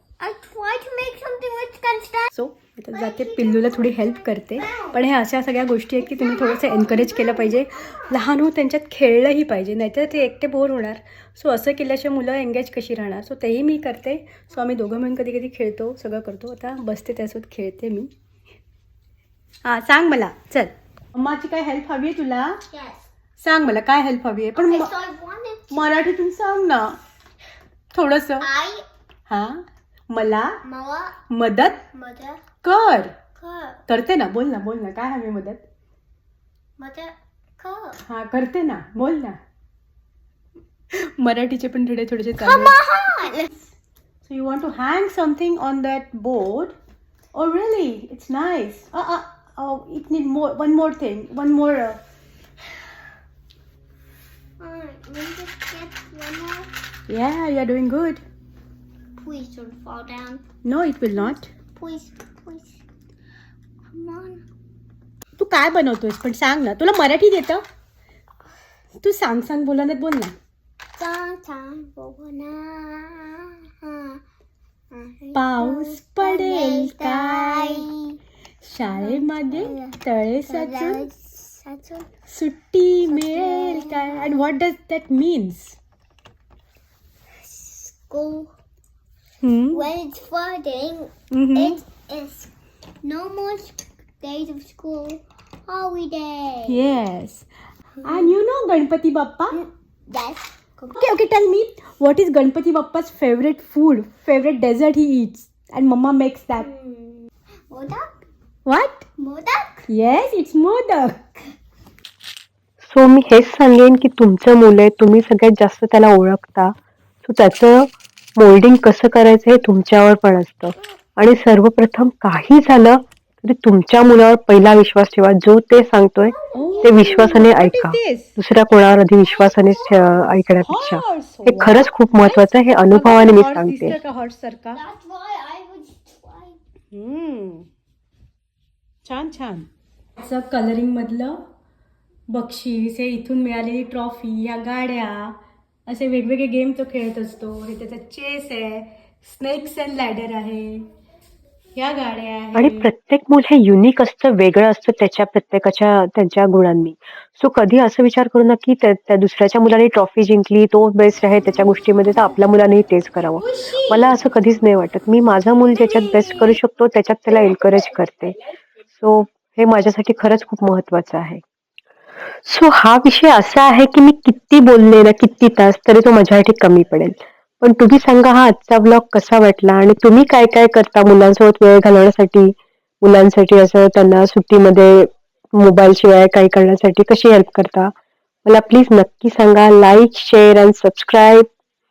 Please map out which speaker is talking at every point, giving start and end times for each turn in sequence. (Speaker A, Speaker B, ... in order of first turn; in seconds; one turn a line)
Speaker A: 0.2-2.3
Speaker B: 2.3-18.1
Speaker A: 2.9-5.0
Speaker A: 6.0-8.2
Speaker B: 19.6-22.6
Speaker A: 22.7-23.0
Speaker B: 23.4-24.9
Speaker A: 24.6-25.8
Speaker B: 25.7-27.0
Speaker B: 27.9-28.5
Speaker A: 28.4-28.8
Speaker B: 29.3-30.6
Speaker A: 30.6-31.2
Speaker B: 31.3-31.8
Speaker A: 31.9-32.4
Speaker B: 32.6-33.1
Speaker A: 33.4-33.8
Speaker B: 33.9-35.6
Speaker A: 36.8-38.0
Speaker B: 38.0-39.4
Speaker B: 40.9-43.3
Speaker A: 42.4-43.5
Speaker B: 44.2-46.8
Speaker B: 47.3-52.0
Speaker A: 54.6-56.7
Speaker B: 57.1-58.2
Speaker A: 59.2-60.4
Speaker B: 60.6-61.5
Speaker A: 61.2-62.8
Speaker A: 63.9-64.4
Speaker B: 65.4-67.6
Speaker B: 69.0-70.3
Speaker A: 71.0-74.2
Speaker A: 74.9-78.2
Speaker B: 75.3-77.8
Speaker B: 78.6-81.1
Speaker A: 78.9-82.1
Speaker B: 82.3-85.8
Speaker A: 83.0-84.3
Speaker A: 87.4-88.5
Speaker B: 89.4-89.8
Speaker A: 89.7-92.5
Speaker B: 91.3-91.8
Speaker A: 93.0-96.9
Speaker B: 96.7-97.5
Speaker A: 98.0-98.3
Speaker B: 98.0-99.6
Speaker A: 99.5-101.0
Speaker B: 100.9-106.7
Speaker A: 106.5-108.1
Speaker B: 108.7-109.0
Speaker A: 109.2-109.8
Speaker B: 109.9-111.2
Speaker C: 112.8-116.7
Speaker C: 117.2-134.0
Speaker A: 126.3-127.1
Speaker B: 126.5-128.4
Speaker A: 129.2-130.3
Speaker B: 130.6-134.8
Speaker A: 134.7-136.6
Speaker B: 136.9-137.7
Speaker B: 139.0-139.7
Speaker B: 140.2-141.4
Speaker B: 142.3-145.3
Speaker B: 145.9-150.8
Speaker B: 151.7-152.9
Speaker C: 152.5-168.3
Speaker B: 163.4-164.1
Speaker B: 165.7-166.6
Speaker C: 168.9-171.4
Speaker C: 172.4-187.9
Speaker C: 188.4-191.4